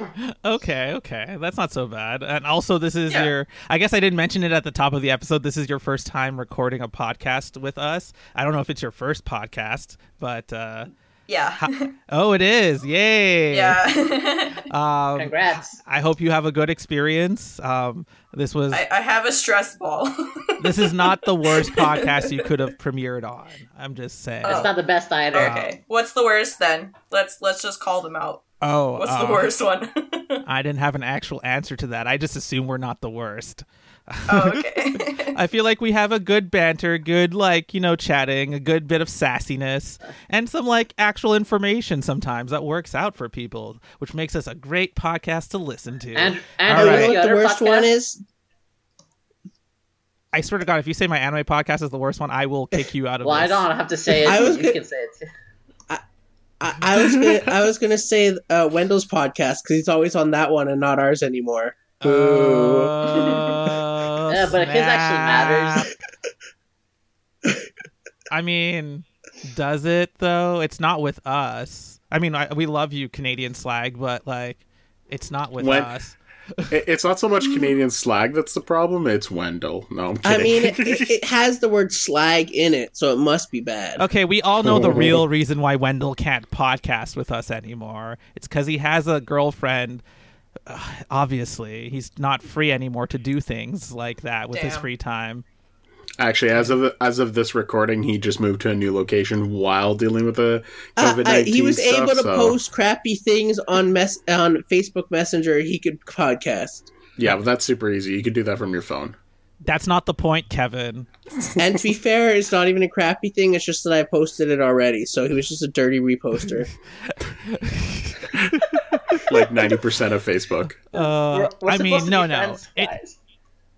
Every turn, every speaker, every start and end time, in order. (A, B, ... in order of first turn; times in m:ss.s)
0:00.2-0:10.9 A
0:11.3-0:11.9 B
0:11.6-0:13.8 A
0:13.5-0:14.6 B
0:14.6-0:18.8 A
0:15.2-0:15.8 C
0:18.7-0:22.5 B
0:20.6-0:24.7 A
0:24.4-0:24.7 B
0:24.4-0:25.6 C
0:25.3-0:30.4 B
0:25.4-0:25.8 A
0:28.6-0:29.5 A
0:30.4-0:34.6 A
0:34.3-0:35.4 B
0:35.3-0:47.1 A
0:46.1-0:47.9 C
0:46.7-0:48.2 D
0:50.3-0:53.6 A
0:53.2-0:55.2 C
0:54.2-0:54.8 D
0:56.6-1:02.9 D
1:02.0-1:05.9 A
1:04.3-1:05.9 C
1:08.3-1:16.7 A
1:15.6-1:15.9 E
1:16.7-1:21.1 E
1:20.2-1:24.0 D
1:24.0-1:30.0 A
1:24.6-1:25.2 E
1:30.6-1:35.4 A
1:34.5-1:34.9 B
1:36.2-1:42.6 E
1:41.0-1:46.9 D
1:47.2-1:49.2 E
1:49.6-1:51.1 A
1:51.6-1:56.7 D
1:57.1-1:59.2 A
1:59.2-2:00.8 E
2:00.9-2:02.9 A
2:01.0-2:03.2 C